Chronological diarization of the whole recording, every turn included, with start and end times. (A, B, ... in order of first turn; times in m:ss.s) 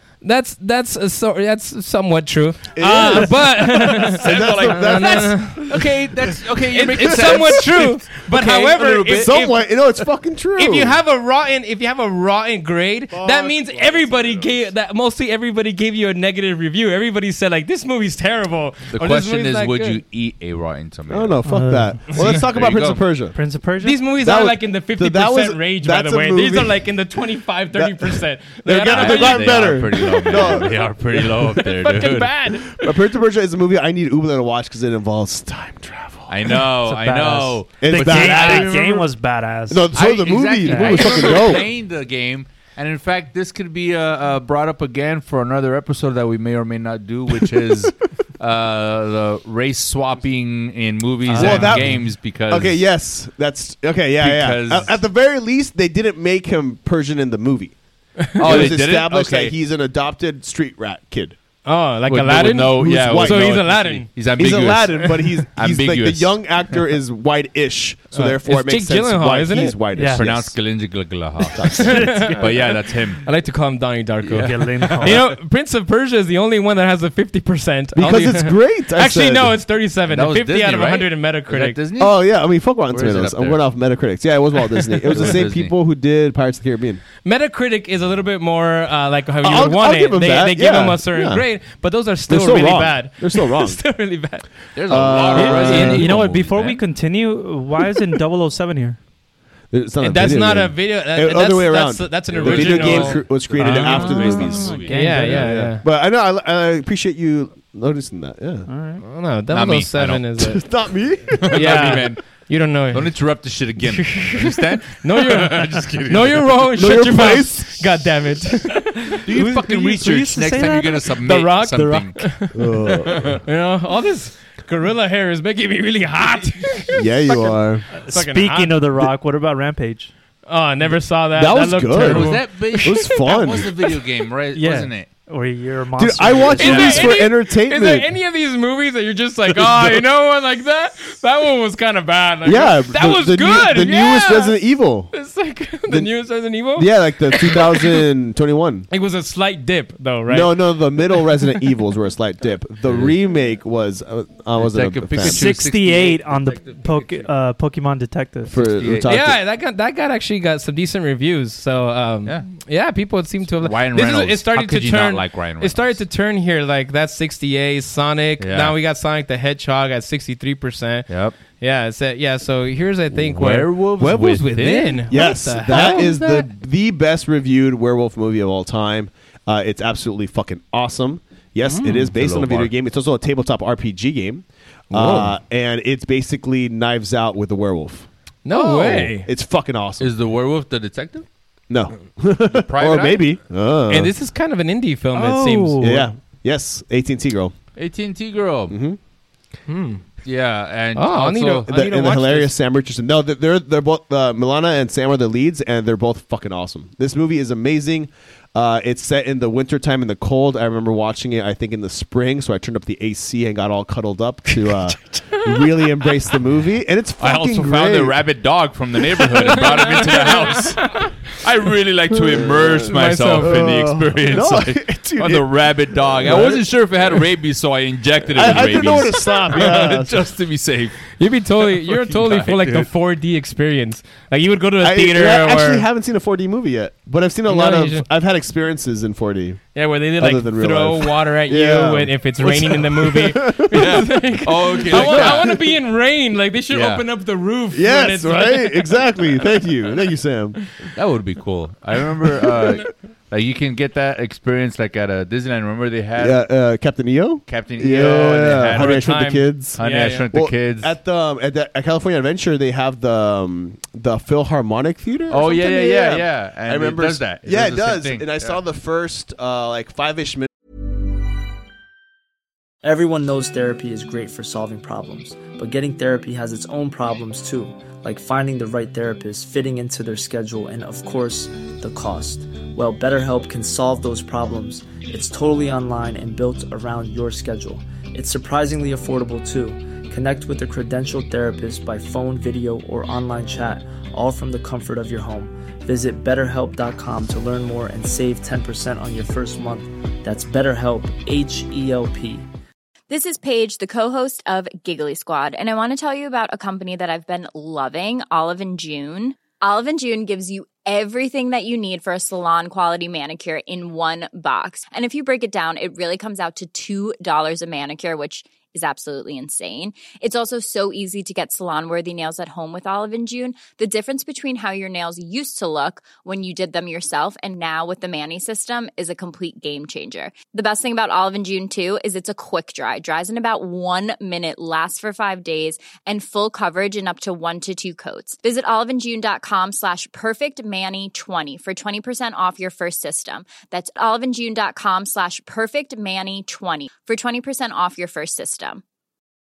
0:00.2-0:05.8 A
0:02.7-0:05.6 B
0:04.0-0:09.4 C
0:06.7-0:09.8 A
0:07.0-0:07.8 B
0:09.1-0:11.0 B
0:10.6-0:20.0 A
0:13.1-0:14.7 B
0:18.9-0:21.4 C
0:21.1-0:23.4 B
0:21.4-0:22.2 D
0:22.1-0:23.0 C
0:23.3-0:24.1 D
0:23.8-0:30.6 A
0:24.2-0:26.9 B
0:27.7-0:31.3 B
0:28.9-0:32.3 C
0:31.5-0:32.9 A
0:32.7-0:36.7 B
0:36.3-0:39.0 C
0:36.9-0:39.9 D
0:37.6-0:38.8 B
0:39.7-0:41.6 B
0:39.9-0:52.8 C
0:40.6-0:41.4 D
0:47.3-0:47.6 B
0:51.3-0:51.9 D
0:51.4-0:57.7 B
0:54.2-0:54.9 C
0:58.4-1:01.4 B
0:58.4-0:59.5 C
1:01.6-1:04.1 A
1:02.1-1:06.3 C
1:02.7-1:03.6 B
1:04.3-1:10.6 B
1:08.1-1:09.8 A
1:10.0-1:10.3 D
1:10.1-1:13.2 C
1:11.5-1:12.4 B
1:11.7-1:12.6 A
1:11.9-1:12.3 D
1:13.2-1:21.8 A
1:14.2-1:15.2 C
1:14.4-1:15.3 D
1:17.9-1:19.6 B
1:20.1-1:22.2 C
1:22.0-1:27.0 B
1:22.9-1:23.6 C
1:25.1-1:25.7 C
1:27.2-1:34.5 A
1:29.4-1:31.4 B
1:32.3-1:33.8 B
1:34.8-1:36.8 C
1:34.9-1:36.2 B
1:35.3-1:39.0 D
1:39.7-1:48.7 B
1:40.0-1:43.2 A
1:42.3-1:45.3 C
1:43.6-1:45.7 D
1:44.9-1:45.8 A
1:48.7-1:49.0 D
1:49.0-1:50.6 A
1:49.5-1:50.2 C
1:50.4-1:51.7 B
1:51.4-1:52.2 C
1:51.5-1:53.1 A
1:52.9-1:56.6 C
1:53.9-1:59.3 A
1:56.8-1:58.1 B
1:59.2-2:02.3 C
1:59.3-2:01.2 D
2:01.2-2:08.8 A
2:02.5-2:03.3 B
2:06.9-2:07.8 B
2:07.9-2:10.1 D
2:10.4-2:13.2 A
2:11.4-2:13.7 B
2:11.9-2:15.1 C
2:14.5-2:17.1 D
2:16.0-2:18.1 B
2:16.6-2:24.6 A
2:16.6-2:17.1 C
2:19.6-2:20.0 B
2:22.4-2:25.1 B
2:25.1-2:28.0 A
2:26.8-2:28.9 B
2:28.9-2:30.6 A
2:30.3-2:35.5 B
2:32.8-2:33.1 C
2:34.6-2:37.3 C
2:35.2-2:38.6 D
2:38.5-2:39.4 B
2:38.6-2:39.1 C
2:39.1-2:56.2 A
2:43.6-2:46.0 C
2:48.4-2:48.7 C
2:51.1-2:51.4 C
2:53.2-2:55.0 C
2:54.0-2:54.4 B
2:55.1-3:10.1 B
2:55.7-2:56.5 C
3:01.9-3:02.7 C
3:04.9-3:05.3 A
3:08.4-3:09.3 A
3:10.0-3:11.3 C
3:11.7-3:14.1 B
3:12.5-3:13.3 C
3:13.9-3:16.0 A
3:15.1-3:16.0 D
3:15.8-3:17.5 B
3:17.8-3:18.7 C
3:18.7-3:19.0 B
3:19.7-3:20.0 A
3:20.2-3:21.7 C
3:20.9-3:22.5 A
3:21.7-3:38.2 B
3:35.1-3:35.4 A
3:37.2-3:51.1 C
3:42.3-3:46.9 B
3:42.8-3:43.7 A
3:48.3-3:50.3 B
3:51.2-3:55.8 A
3:51.7-3:52.9 C
3:54.8-3:59.6 B
3:57.5-3:58.0 A
3:59.7-4:09.0 A
4:00.2-4:04.1 B
4:03.7-4:05.5 C
4:04.7-4:05.6 B
4:06.7-4:07.0 C
4:07.7-4:10.6 B
4:10.9-4:16.4 C
4:16.2-4:19.8 B
4:17.5-4:19.2 C
4:18.8-4:20.2 A
4:19.8-4:20.9 C
4:20.3-4:30.5 B
4:25.3-4:28.6 C
4:32.8-5:02.5 E
5:03.1-5:48.8 F